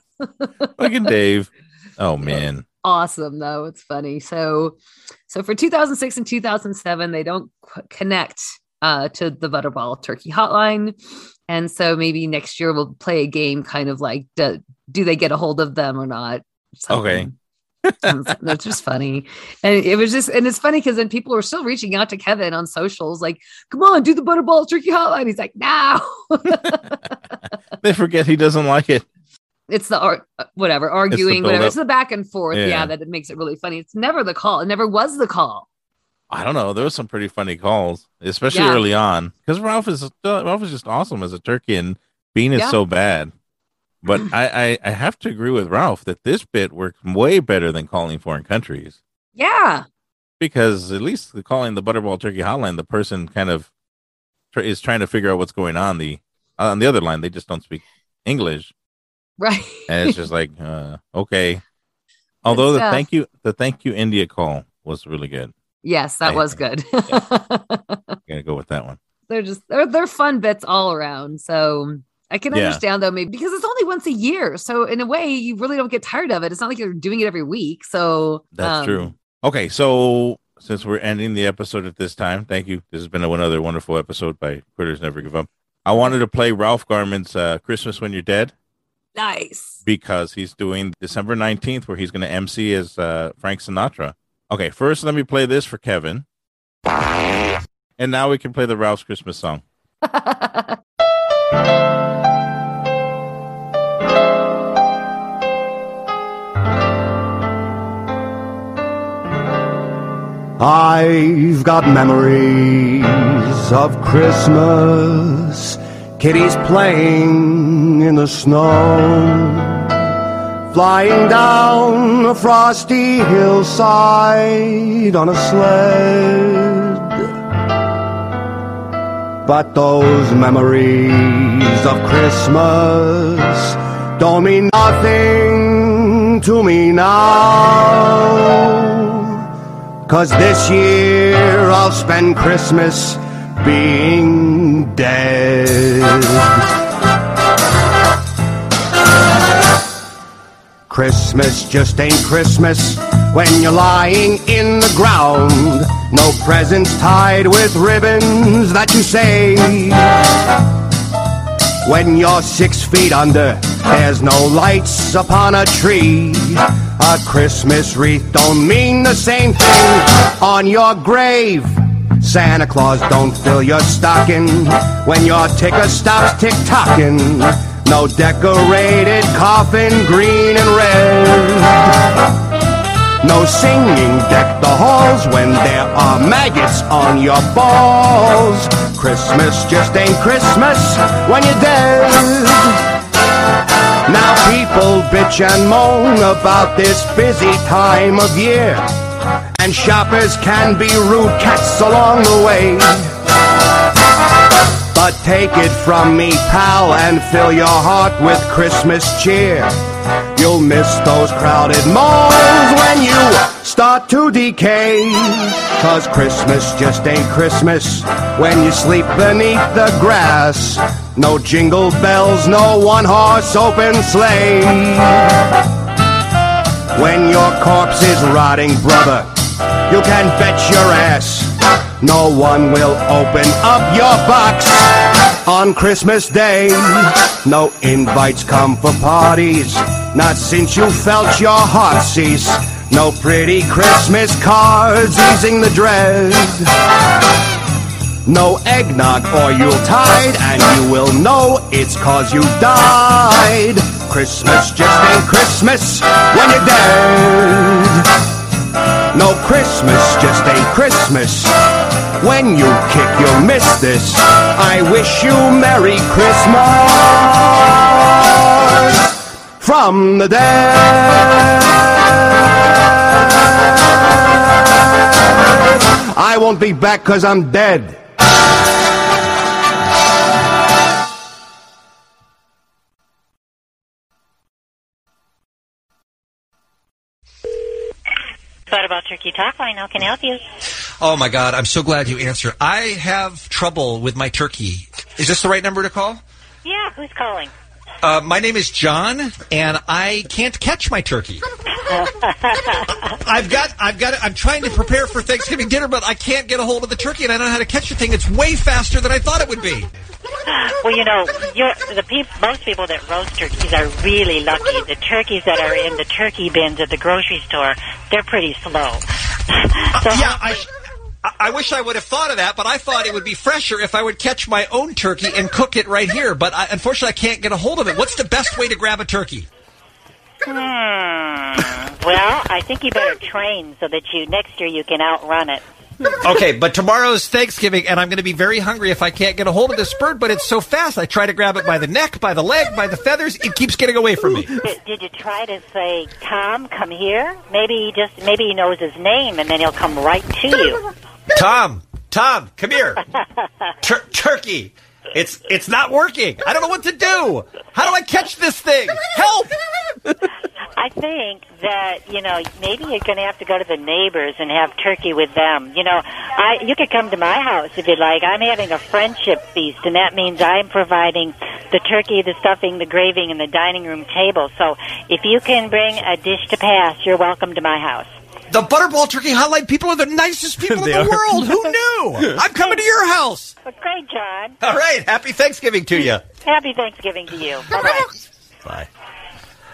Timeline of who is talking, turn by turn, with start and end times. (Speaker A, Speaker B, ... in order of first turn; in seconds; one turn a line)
Speaker A: 0.2-0.7
Speaker B: 0.8-2.6
Speaker A: 2.2-4.8
Speaker A: 5.3-10.9
Speaker A: 11.5-17.3
Speaker B: 16.9-17.3
Speaker A: 18.0-27.0
Speaker B: 27.8-29.0
Speaker A: 29.7-35.6
Speaker B: 31.1-31.8
Speaker B: 32.5-32.9
Speaker B: 36.3-43.3
Speaker A: 38.5-38.8
Speaker B: 44.0-49.0
Speaker A: 49.4-49.8
Speaker B: 50.4-53.7
Speaker B: 54.5-58.7
Speaker A: 59.4-60.1
Speaker B: 59.9-61.6
Speaker B: 62.4-65.5
Speaker A: 62.5-63.0
Speaker A: 65.8-68.2
Speaker B: 66.2-66.6
Speaker B: 68.3-69.0
Speaker A: 69.3-79.1
Speaker B: 72.5-72.8
Speaker B: 78.5-88.5
Speaker A: 89.1-89.8
Speaker B: 89.8-96.2
Speaker B: 98.0-99.6
Speaker A: 100.0-100.8
Speaker C: 110.6-119.9
Speaker C: 120.7-127.3
Speaker C: 129.4-139.4
Speaker C: 140.1-146.6
Speaker C: 150.9-160.2
Speaker C: 161.8-181.9
Speaker C: 183.2-192.8
Speaker C: 194.1-198.9
Speaker C: 199.6-203.1
Speaker C: 204.9-209.7
Speaker C: 210.3-225.3
Speaker C: 226.9-246.7
Speaker C: 248.2-258.1
Speaker C: 259.1-261.5
Speaker C: 262.2-271.6
Speaker C: 276.1-278.0
Speaker D: 288.7-290.4
Speaker E: 291.0-296.2
Speaker D: 296.6-297.5
Speaker E: 298.0-301.4
Speaker D: 301.9-303.0
Speaker E: 303.2-309.9
Speaker D: 310.5-320.6
Speaker E: 319.9-320.7
Speaker E: 321.2-329.5
Speaker D: 330.4-335.6
Speaker E: 336.2-344.6
Speaker D: 344.6-350.9
Speaker E: 351.3-353.0
Speaker E: 353.8-359.5
Speaker D: 360.8-378.1
Speaker E: 378.5-383.5
Speaker D: 383.6-384.6
Speaker E: 384.6-386.2
Speaker D: 386.4-388.1